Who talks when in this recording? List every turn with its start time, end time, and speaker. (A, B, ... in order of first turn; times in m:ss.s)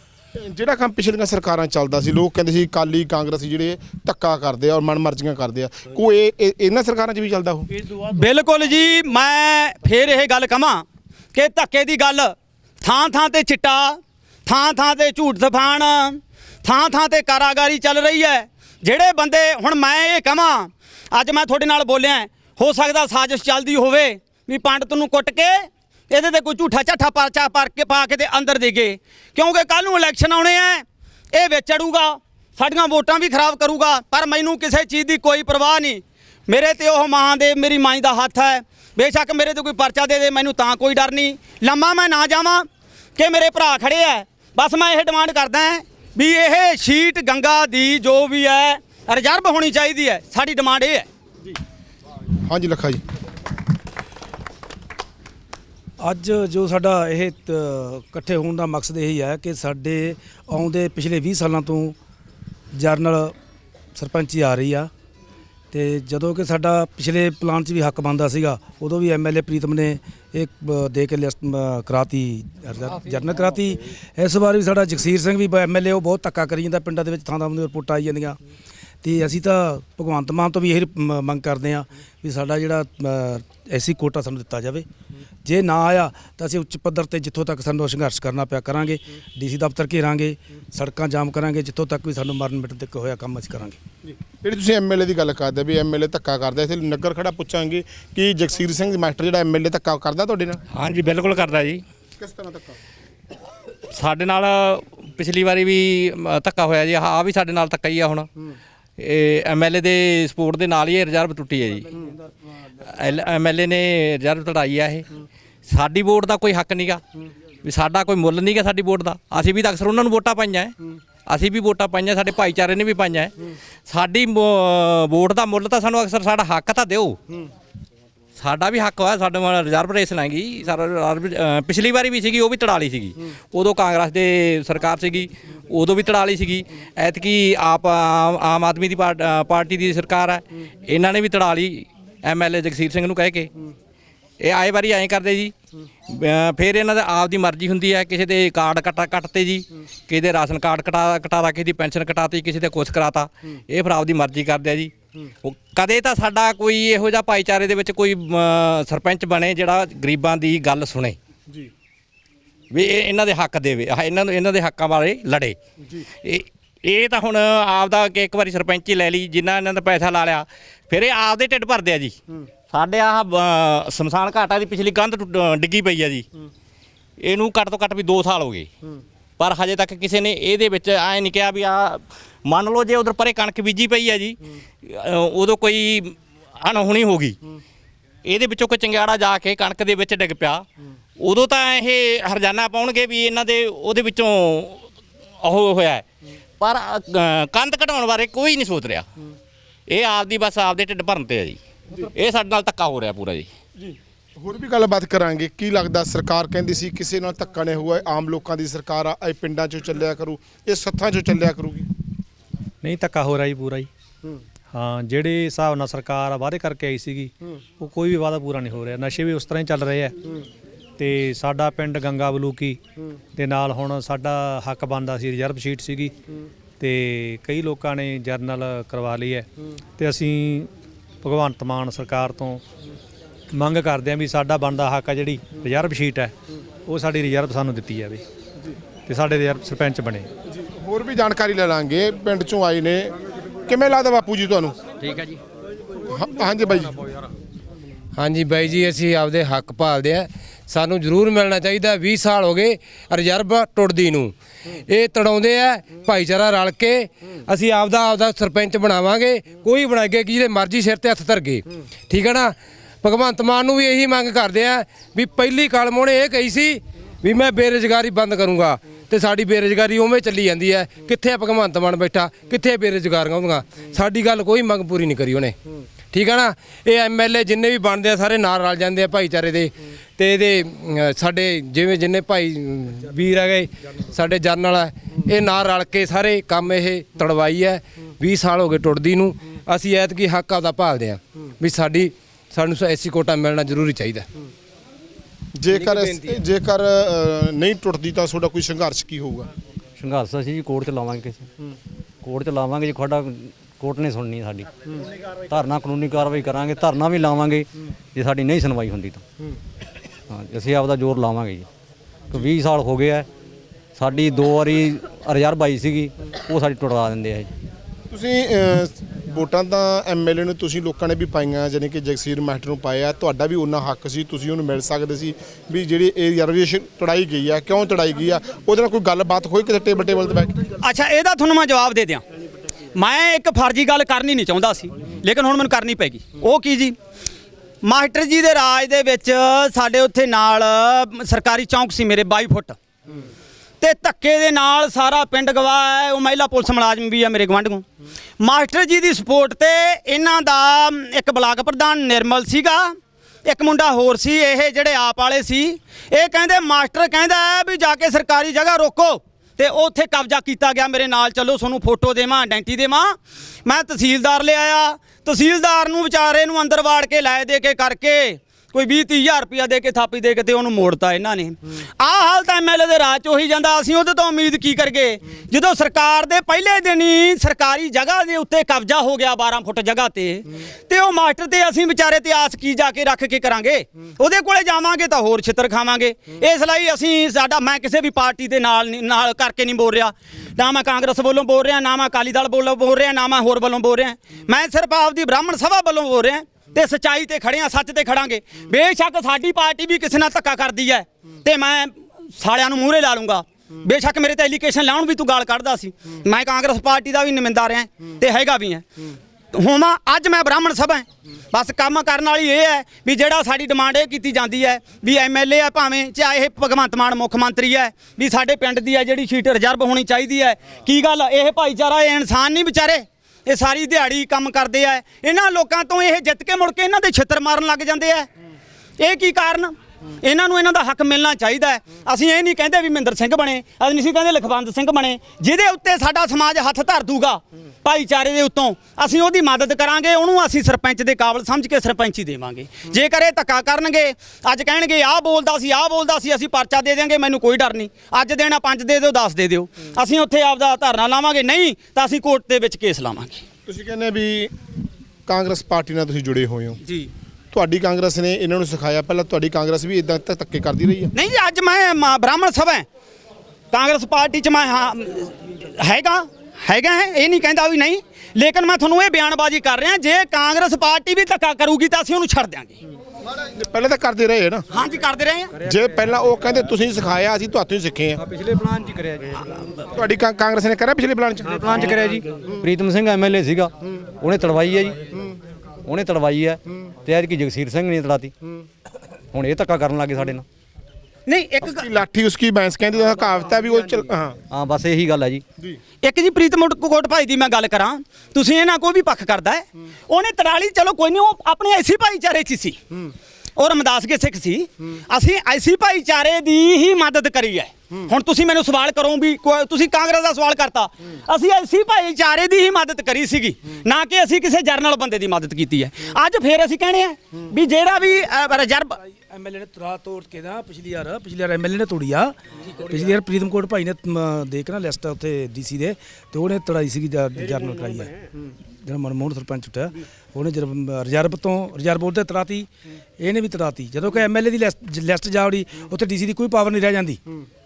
0:00.4-0:07.7 A
0:08.1-0:42.6 B
0:43.2-0:51.1 B
0:52.4-0:53.0 A
0:56.0-1:02.0 C
1:02.7-1:03.3 C
1:04.0-1:04.9 C
1:05.7-1:18.4 C
1:19.0-1:24.8 C
1:25.4-1:33.8 C
1:34.1-1:40.6 A
1:40.7-1:41.8 D
1:42.2-1:42.7 A
1:43.9-1:48.3 D
1:49.0-1:51.9 D
1:52.8-1:55.1 D
1:55.7-1:57.0 D
1:57.6-2:00.7 D
2:01.3-2:03.4 D
2:03.9-2:07.2 D
2:08.4-2:23.5 D
2:24.4-2:25.5 D
2:26.1-2:34.9 D
2:35.4-2:41.2 D
2:42.7-2:45.6 D
2:46.2-2:52.2 D
2:52.7-2:56.2 D
2:57.2-2:58.7 D
2:59.4-3:07.4 D
3:08.2-3:10.6 D
3:11.2-3:14.9 D
3:15.4-3:16.0 D
3:16.6-3:19.1 D
3:19.9-3:23.5 D
3:23.8-3:31.8 A
3:32.8-3:33.9 E
3:34.7-3:40.1 E
3:41.0-3:42.8 E
3:43.4-3:46.1 E
3:46.8-3:49.5 E
3:50.0-3:50.7 E
3:51.2-3:52.6 E
3:53.5-3:56.3 E
3:56.9-3:58.2 E
3:59.1-4:00.3 E
4:00.5-4:03.1 A
4:03.6-4:04.8 A
4:06.0-4:07.1 A
4:08.2-4:14.3 F
4:14.9-4:35.6 F
4:36.1-4:54.2 F
4:55.6-4:59.5 A
4:55.7-4:56.4 F
5:00.0-5:01.5 G
5:02.2-5:04.7 G
5:05.5-5:09.2 G
5:10.3-5:11.7 G
5:12.3-5:13.3 G
5:14.0-5:17.5 G
5:18.1-5:30.6 A
5:30.8-5:32.2 B
5:32.9-5:36.9 B
5:37.8-5:42.8 B
5:43.8-5:47.8 B
5:48.4-5:52.9 B
5:53.4-6:48.8 B
6:49.5-7:08.3 B
7:09.0-7:33.4 B
7:33.7-7:34.5 A
7:35.3-7:36.8 A
7:37.5-7:41.1 A
7:41.1-7:42.8 B
7:43.7-7:52.8 B
7:53.4-7:54.6 A
7:54.7-7:55.5 B
7:55.6-7:58.2 A
7:58.2-7:59.6 G
7:59.9-8:02.0 A
8:01.6-8:05.1 G
8:05.8-8:08.3 G
8:09.3-8:10.4 G
8:11.3-8:11.8 B
8:11.6-8:14.3 A
8:14.5-8:15.4 G
8:16.0-8:22.8 B
8:23.6-8:38.9 B
8:39.3-8:48.1 C
8:48.8-8:52.7 C
8:53.2-8:57.2 C